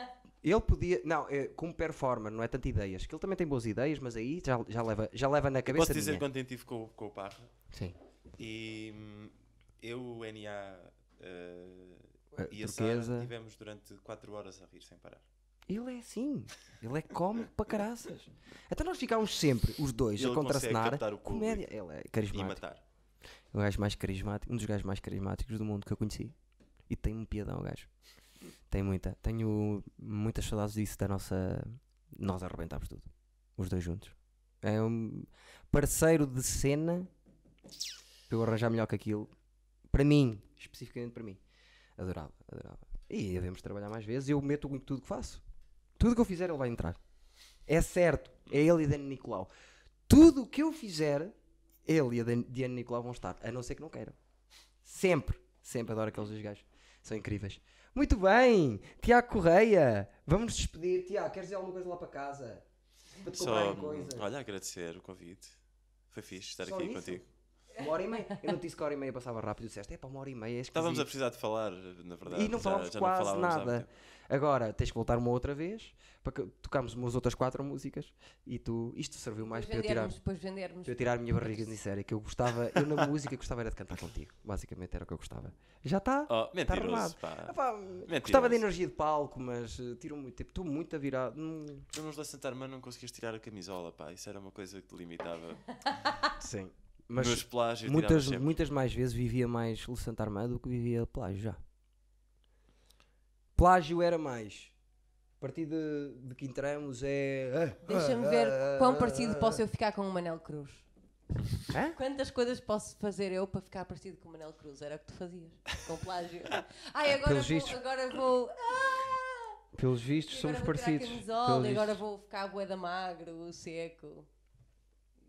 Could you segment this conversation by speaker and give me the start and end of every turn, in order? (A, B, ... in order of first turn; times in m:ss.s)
0:00.4-0:06.3 A
0:05.7-0:07.5 B
0:07.7-0:08.0 A
0:08.4-0:15.2 B
0:12.3-0:13.3 A
0:15.7-0:22.6 A
0:20.2-0:21.7 B
0:22.3-0:22.8 B
0:23.5-0:26.4 A
0:26.9-0:27.9 A
0:28.7-0:37.1 A
0:38.3-0:39.3 A
0:39.9-0:41.4 A
0:42.0-0:45.4 A
0:46.0-0:47.0 A
0:47.7-0:49.5 A
0:50.1-0:51.4 A
0:51.9-0:54.2 A
0:54.8-1:02.6 A
1:03.2-1:04.2 A
1:03.3-1:05.6 B
1:06.1-1:07.3 B
1:06.6-1:11.1 A
1:10.7-1:13.9 B
1:12.3-1:20.1 A
1:19.5-1:21.7 C
1:20.8-1:31.9 A
1:26.3-1:28.6 B
1:31.9-1:35.6 B
1:36.4-1:41.6 A
1:37.1-1:38.6 B
1:43.6-1:44.7 A
1:45.4-1:49.6 A
1:47.8-1:50.9 C
1:51.7-1:52.0 A
1:51.9-1:59.6 C
1:57.1-1:57.8 A
1:59.8-2:02.0 A
2:00.3-2:04.3 C